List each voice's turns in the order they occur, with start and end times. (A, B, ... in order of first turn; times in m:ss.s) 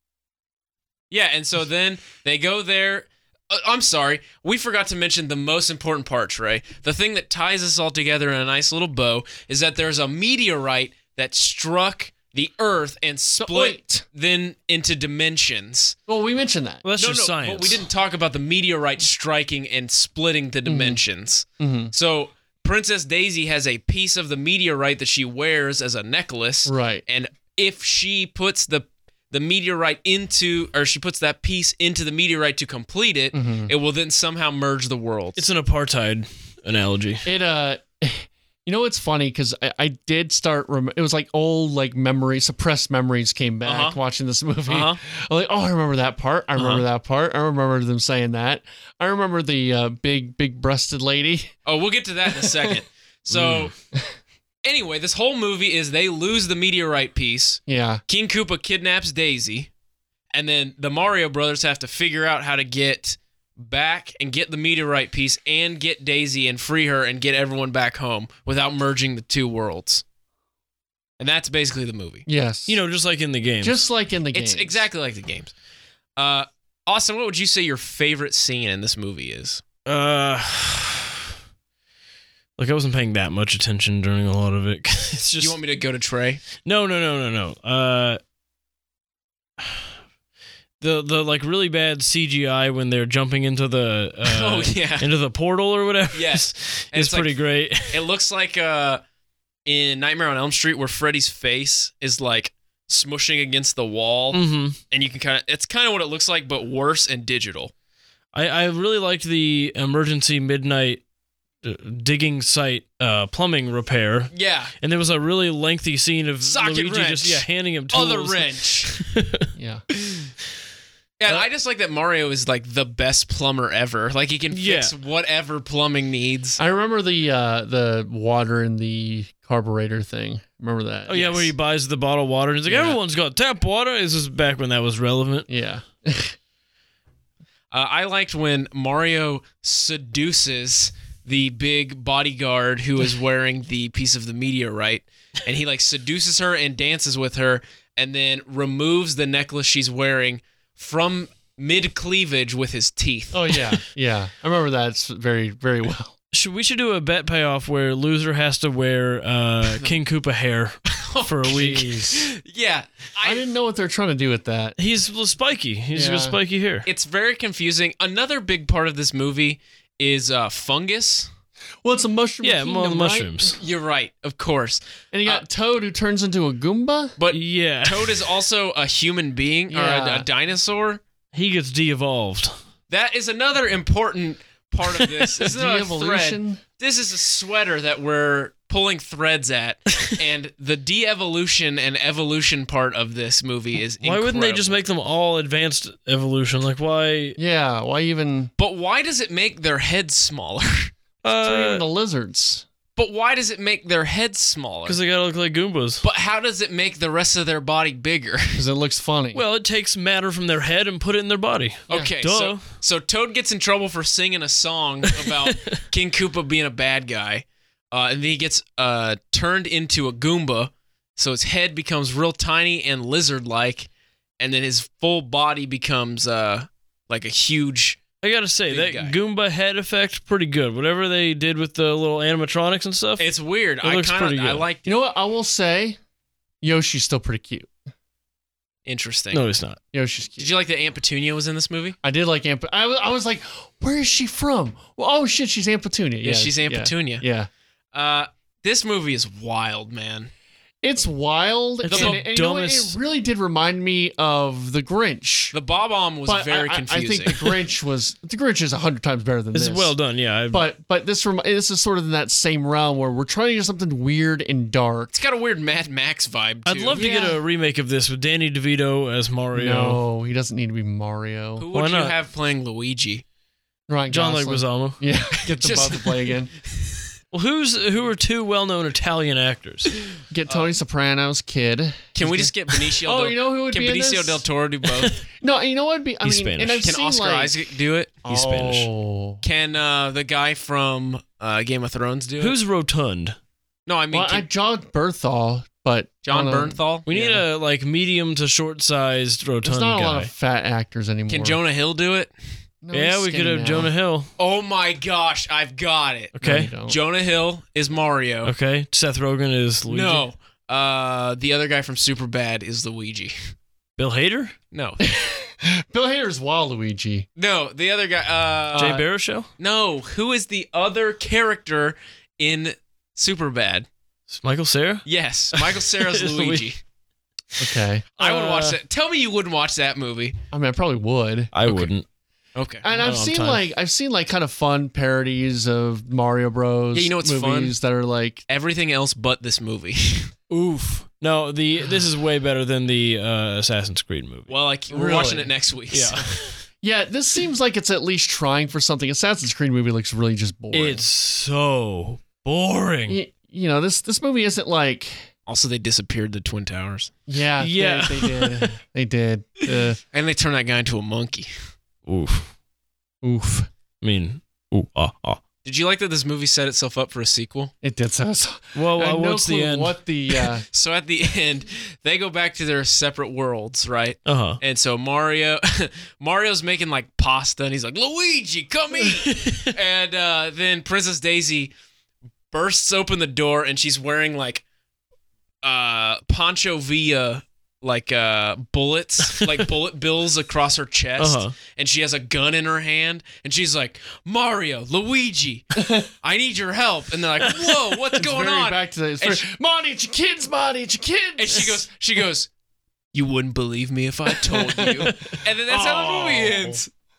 0:01.1-0:16.0 A
0:13.4-0:14.0 B
0:16.1-0:16.8 B
0:16.8-0:17.8 C
0:17.0-0:35.4 A
0:20.6-0:21.0 B
0:21.6-0:21.9 B
0:26.6-0:27.0 B
0:33.3-0:33.7 B
0:35.4-0:37.2 C
0:37.2-0:51.5 B
0:43.6-0:44.0 A
0:44.7-0:45.0 A
0:46.6-0:46.8 A
0:51.6-0:53.7 A
0:53.3-0:54.1 B
0:53.3-0:53.7 C
0:54.6-0:59.7 A
0:57.7-0:58.0 B
1:00.3-1:10.0 A
1:11.2-1:12.2 A
1:12.2-1:12.8 B
1:12.7-1:13.8 C
1:13.6-1:14.8 B
1:14.3-1:15.5 A
1:16.2-1:19.6 A
1:19.8-1:21.1 C
1:22.6-1:25.6 C
1:25.3-1:26.4 A
1:26.6-1:28.2 C
1:30.8-1:38.0 C
1:34.2-1:35.1 A
1:36.1-1:39.0 A
1:39.6-1:47.7 A
1:44.3-1:44.8 C
1:48.3-1:51.0 C
1:51.6-1:59.5 C
1:54.3-1:54.7 A
1:56.4-1:58.9 A
1:59.5-1:59.8 B
2:01.2-2:06.6 A
2:04.5-2:04.9 C
2:06.6-2:11.4 B
2:11.1-2:15.5 C
2:12.6-2:13.0 B
2:15.5-2:16.4 B
2:17.7-2:33.8 A
2:33.3-2:36.1 B
2:36.3-2:41.9 C
2:39.6-2:40.0 A
2:40.9-2:43.4 A
2:41.5-2:42.3 B
2:43.2-2:44.8 B
2:44.8-2:46.9 C
2:45.9-2:46.4 B
2:46.8-2:51.3 A
2:51.8-2:53.3 B
2:52.4-2:53.6 C
2:53.6-2:55.4 A
2:55.1-2:57.2 B
2:57.2-3:01.0 A
2:57.3-2:58.2 C
2:59.7-3:00.3 B
3:01.3-3:02.6 C
3:02.9-3:14.8 A
3:05.4-3:06.6 B
3:14.0-3:17.4 C
3:17.4-3:18.5 B
3:18.6-3:20.9 A
3:21.2-3:21.8 C
3:21.2-3:22.6 B
3:23.0-3:25.0 A
3:24.8-3:26.0 C
3:26.0-3:28.6 A
3:28.5-3:29.4 B
3:29.3-3:32.6 C
3:31.9-3:43.9 A
3:44.4-3:48.0 A
3:48.2-3:53.3 C
3:48.7-3:49.2 A
3:53.2-3:55.0 A
3:53.8-3:54.6 C
3:54.8-3:56.0 B
3:56.6-3:57.7 B
3:58.8-3:59.4 A
3:59.3-3:59.8 C
3:59.9-4:00.5 B
4:00.4-4:02.0 A
4:02.0-4:07.5 B
4:06.2-4:07.2 A
4:07.9-4:10.3 A
4:10.8-4:15.6 B
4:11.8-4:13.0 C
4:11.9-4:12.2 A
4:15.5-4:17.5 A
4:16.2-4:20.0 B
4:19.5-4:20.6 C
4:20.5-4:25.1 B
4:25.1-4:27.0 A
4:26.6-4:30.0 C
4:26.9-4:27.4 B
4:29.5-4:31.6 B
4:31.6-4:33.2 A
4:31.7-4:32.1 C
4:33.9-4:36.5 B
4:34.1-4:35.0 C
4:35.5-4:37.0 A
4:37.3-4:39.9 C
4:40.3-4:44.4 B
4:40.5-4:40.8 A
4:42.2-4:45.2 A
4:45.3-4:47.6 B
4:46.2-4:46.9 C
4:46.8-4:48.9 A
4:48.2-4:49.4 B
4:49.4-4:52.6 A
4:52.4-4:53.4 C
4:53.9-4:54.4 A
4:54.1-4:57.4 B
4:56.2-4:57.1 A
4:57.1-5:00.3 C
4:59.6-5:01.6 B
5:01.3-5:02.3 A
5:02.8-5:03.9 B
5:02.9-5:04.3 C
5:04.4-5:08.5 A
5:06.4-5:06.7 C
5:06.4-5:07.0 B
5:08.4-5:10.2 C
5:09.9-5:13.3 A
5:14.0-5:14.5 C
5:14.7-5:15.0 A
5:15.0-5:17.2 B
5:17.4-5:19.0 A
5:18.7-5:19.5 C
5:19.6-5:23.9 A
5:24.3-5:26.7 C
5:25.0-5:26.8 A
5:27.6-5:28.1 B
5:28.2-5:28.8 C
5:28.2-5:30.4 A
5:30.5-5:31.9 B
5:31.5-5:32.0 C
5:32.6-5:32.8 A
5:32.8-5:38.4 B
5:32.9-5:33.6 C
5:36.9-5:37.7 A
5:38.5-5:40.3 A
5:40.5-5:44.5 C
5:44.5-5:46.2 A
5:44.9-5:45.5 B
5:45.9-5:46.5 C
5:46.8-5:51.0 B
5:50.7-5:53.2 C
5:53.1-5:55.3 B
5:55.5-5:57.1 A
5:57.3-6:00.0 B
5:57.6-5:58.8 C
6:00.1-6:01.5 A
6:02.1-6:02.5 C
6:03.2-6:03.7 B
6:04.0-6:05.4 C
6:05.6-6:07.7 A
6:07.8-6:10.6 B
6:08.7-6:10.0 C
6:10.7-6:21.7 A
6:14.2-6:14.6 C
6:19.2-6:19.7 C
6:22.5-6:24.6 A
6:25.6-6:39.4 A
6:31.2-6:31.5 C
6:35.8-6:36.1 B
6:38.1-6:41.8 B
6:41.4-6:42.5 A
6:43.1-6:46.9 A
6:44.5-6:46.8 B